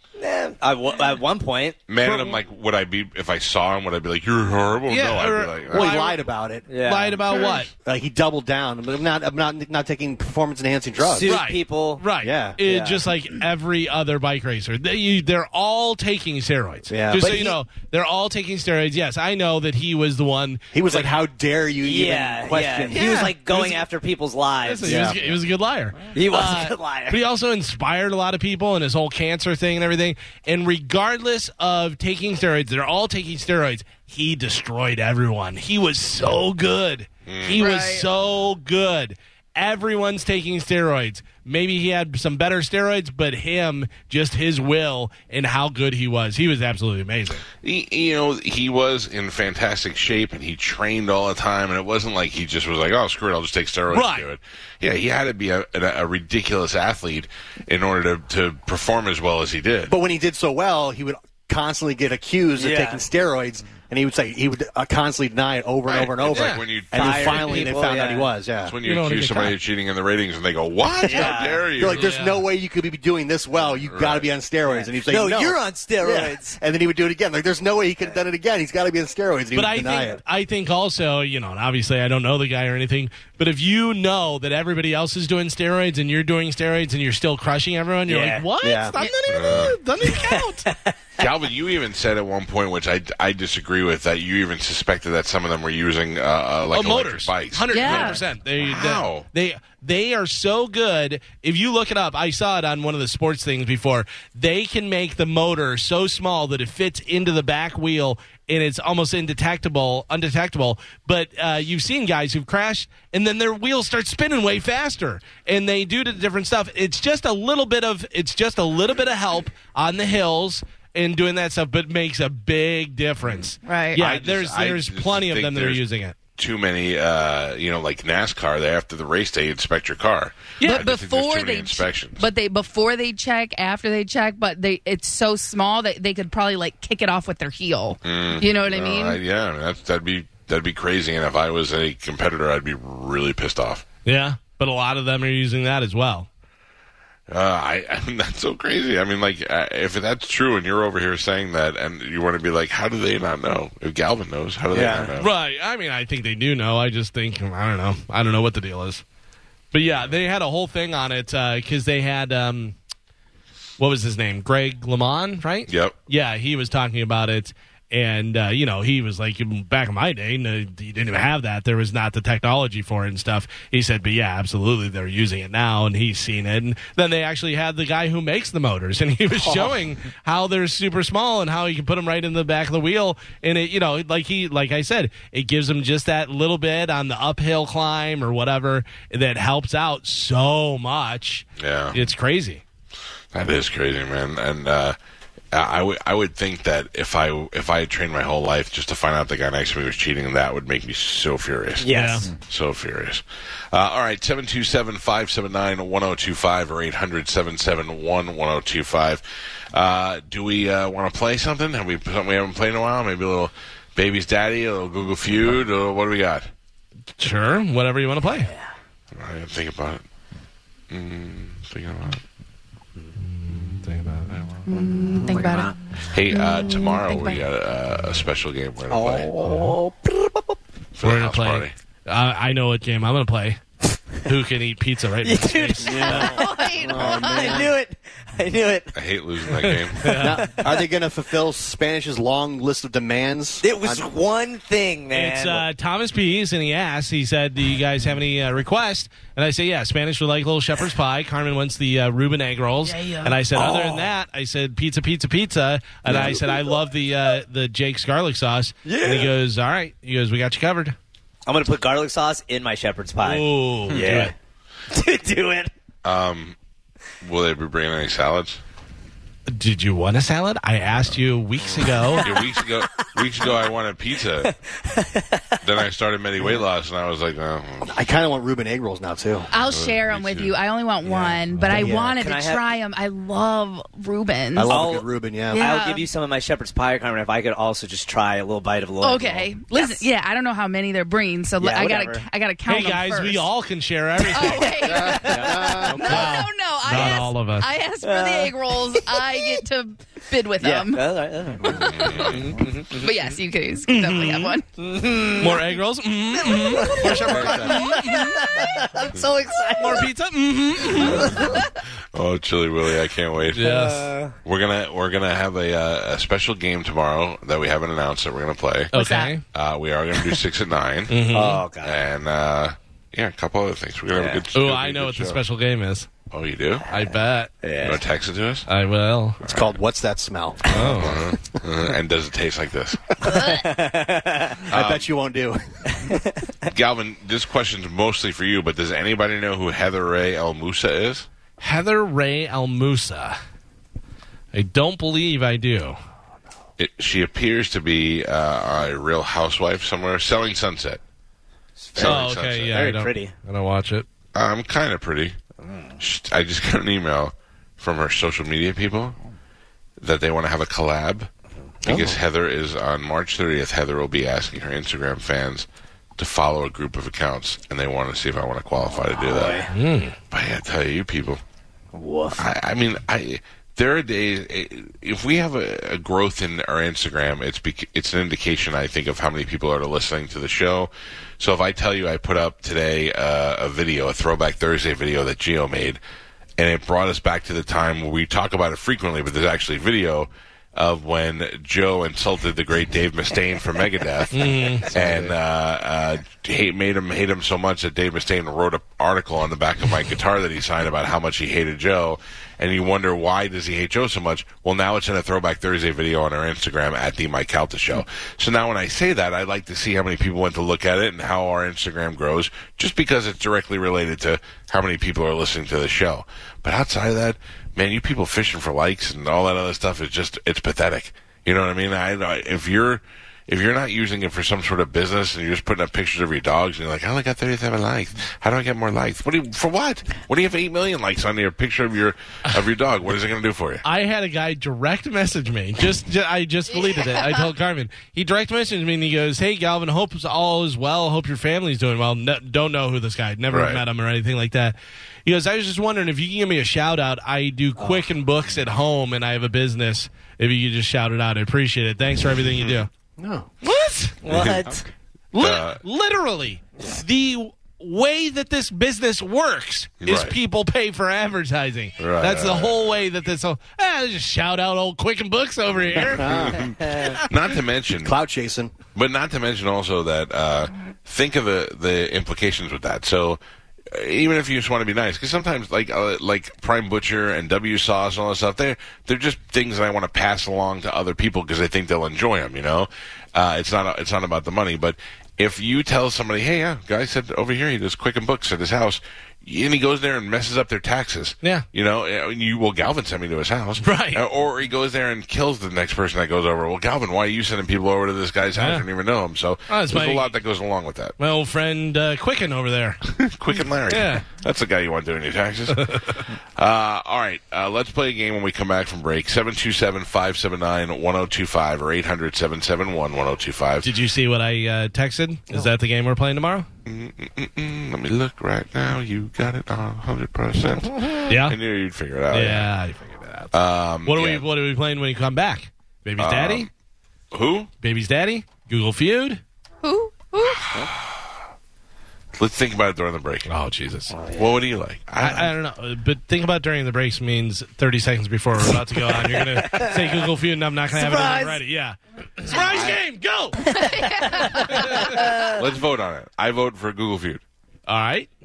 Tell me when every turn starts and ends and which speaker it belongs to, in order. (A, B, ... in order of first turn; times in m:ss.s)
0:00.2-0:02.2 A
0:01.9-0:05.9 B
0:04.9-0:06.2 C
0:05.7-0:06.6 D
0:06.7-0:07.4 A
0:06.8-0:07.7 C
0:07.8-0:11.3 D
0:11.0-0:12.1 A
0:11.2-0:21.1 C
0:12.2-0:12.6 D
0:12.6-0:13.0 A
0:16.9-0:17.4 D
0:17.1-0:17.6 A
0:20.7-0:23.4 D
0:21.8-0:25.4 A
0:22.9-0:23.8 C
0:24.6-0:47.4 C
0:24.8-0:25.2 D
0:26.1-0:27.2 A
0:37.3-0:37.6 B
0:37.6-0:38.1 E
0:47.6-0:59.9 B
0:53.9-0:54.3 C
0:59.9-1:08.8 D
1:02.6-1:03.0 A
1:05.9-1:07.6 B
1:06.3-1:06.6 C
1:06.9-1:08.3 A
1:08.6-1:12.1 B
1:08.8-1:09.6 C
1:11.1-1:11.7 A
1:11.1-1:20.2 D
1:11.9-1:12.4 C
1:13.9-1:14.3 B
1:14.7-1:16.6 A
1:19.5-1:30.7 C
1:28.1-1:28.5 A
1:28.6-1:29.0 D
1:29.0-1:29.3 E
1:29.3-1:29.8 B
1:30.0-1:31.0 A
1:31.2-1:39.3 B
1:36.7-2:06.2 C
1:37.7-1:38.2 E
2:03.6-2:04.0 E
2:04.0-2:05.8 B
2:06.4-2:12.3 B
2:10.6-2:10.8 C
2:10.6-2:19.2 E
2:18.0-2:23.8 B
2:24.1-2:26.3 C
2:27.3-2:35.3 B
2:34.7-2:35.1 A
2:35.2-2:39.0 C
2:39.7-2:42.8 C
2:43.8-3:12.6 C
2:45.7-2:46.0 B
3:11.6-3:12.0 B
3:13.3-3:15.0 B
3:15.5-3:36.5 B
3:21.8-3:22.3 A
3:21.9-3:22.3 C
3:37.2-3:38.5 C
3:39.1-3:40.0 B
3:40.9-3:42.2 B
3:43.2-3:44.5 C
3:44.7-3:45.7 E
3:44.7-3:45.7 A
3:46.1-3:49.3 B
3:46.3-3:47.4 E
3:48.9-3:50.6 A
3:49.5-3:49.7 C
3:51.0-3:51.7 B
3:51.0-3:53.6 C
3:54.2-3:56.3 C
3:55.2-3:59.0 A
3:55.8-3:57.7 D
3:56.1-3:57.6 E
3:58.9-4:00.2 B
3:59.5-4:00.5 C
4:00.2-4:04.1 D
4:03.6-4:05.6 A
4:05.1-4:21.0 C
4:13.5-4:14.1 A
4:16.1-4:16.7 A
4:18.8-4:19.3 A
4:21.5-4:24.3 A
4:23.2-4:24.3 C
4:24.9-4:25.7 A
4:26.0-4:26.6 B
4:27.2-4:28.6 B
4:29.5-4:32.3 C
4:32.1-4:33.1 A
4:32.2-4:34.5 B
4:34.4-4:35.7 A
4:35.6-4:38.0 B
4:37.9-4:39.5 D
4:39.5-4:44.7 E
4:39.6-4:40.5 B
4:41.0-4:42.2 D
4:41.5-4:41.8 C
4:42.1-4:42.6 A
4:44.6-4:45.6 D
4:44.7-4:50.0 A
4:45.5-4:46.1 E
4:49.0-4:53.5 E
4:51.6-4:52.2 A
4:52.7-4:55.0 C
4:54.3-5:01.0 E
4:54.4-4:56.2 A
4:55.7-4:57.7 C
4:58.0-4:59.6 A
5:00.6-5:03.3 A
5:01.7-5:02.6 B
5:01.7-5:02.3 E
5:03.0-5:04.6 E
5:03.9-5:04.6 C
5:04.8-5:05.7 A
5:05.4-5:08.4 C
5:06.4-5:10.1 A
5:08.0-5:08.3 E
5:09.8-5:11.4 C
5:10.9-5:11.6 B
5:11.0-5:11.6 A
5:12.1-5:13.8 B
5:13.6-5:14.1 C
5:13.6-5:14.4 A
5:14.4-5:18.9 B
5:18.9-5:19.4 E
5:18.9-5:19.4 C
5:19.5-5:21.2 B
5:21.1-5:21.6 C
5:21.3-5:22.0 A
5:21.8-5:25.4 B
5:24.1-5:24.4 A
5:24.5-5:26.1 C
5:26.3-5:26.9 B
5:26.9-5:27.5 C
5:27.6-5:28.0 A
5:27.8-5:28.7 B
5:28.7-5:29.4 C
5:29.4-5:29.7 B
5:29.5-5:30.8 D
5:30.7-5:31.2 C
5:30.8-5:33.3 B
5:33.2-5:34.7 A
5:33.3-5:33.6 E
5:34.7-5:35.6 D
5:34.7-5:35.1 B
5:36.0-5:36.3 A
5:36.7-5:41.3 B
5:41.6-5:43.4 C
5:44.5-5:46.0 C
5:46.8-5:51.0 B
5:51.8-5:53.3 A
5:52.0-5:52.8 B
5:52.0-5:54.1 C
5:54.3-5:55.4 B
5:55.6-5:55.9 A
5:56.0-5:59.2 B
6:00.0-6:01.3 B
6:01.8-6:09.6 B
6:09.0-6:09.7 A
6:09.7-6:10.2 C
6:10.3-6:11.4 B
6:11.9-6:12.4 A
6:12.4-6:26.0 B
6:26.6-7:13.8 B
6:34.3-6:34.9 C
7:13.8-7:32.9 C
7:16.7-7:17.5 E
7:23.5-7:23.8 B
7:27.8-7:28.1 A
7:32.4-7:32.8 B
7:33.2-7:33.5 D
7:33.6-7:34.3 C
7:34.2-7:34.8 A
7:34.3-7:34.7 B
7:35.3-7:46.4 C
7:35.4-7:35.8 B
7:40.0-7:40.4 B
7:42.0-7:43.0 B
7:45.9-7:48.2 B
7:46.1-7:46.7 D
7:46.8-7:47.2 A
7:48.0-7:48.7 D
7:49.0-7:53.4 B
7:53.9-8:21.2 B
8:13.8-8:14.2 C
8:18.6-8:18.9 C
8:19.7-8:20.3 C
8:21.2-8:23.0 C
8:23.0-8:33.9 B
8:23.9-8:24.2 C
8:25.7-8:26.2 C
8:33.8-8:36.7 C
8:36.9-8:42.7 B
8:41.3-8:41.6 C
8:42.3-8:43.5 C
8:43.5-8:44.4 B
8:44.0-8:46.7 C
8:46.2-8:46.7 B
8:47.3-8:47.7 B
8:47.8-8:49.4 C
8:49.8-8:50.7 E
8:50.4-8:51.2 B
8:52.4-8:55.5 B
8:53.5-8:54.1 C
8:54.1-8:54.6 A
8:55.2-9:03.8 C
8:59.2-9:00.3 A
9:00.9-9:01.6 A
9:03.7-9:05.1 E
9:03.8-9:05.7 A
9:04.7-9:05.1 C
9:05.5-9:07.4 B
9:07.9-9:08.3 C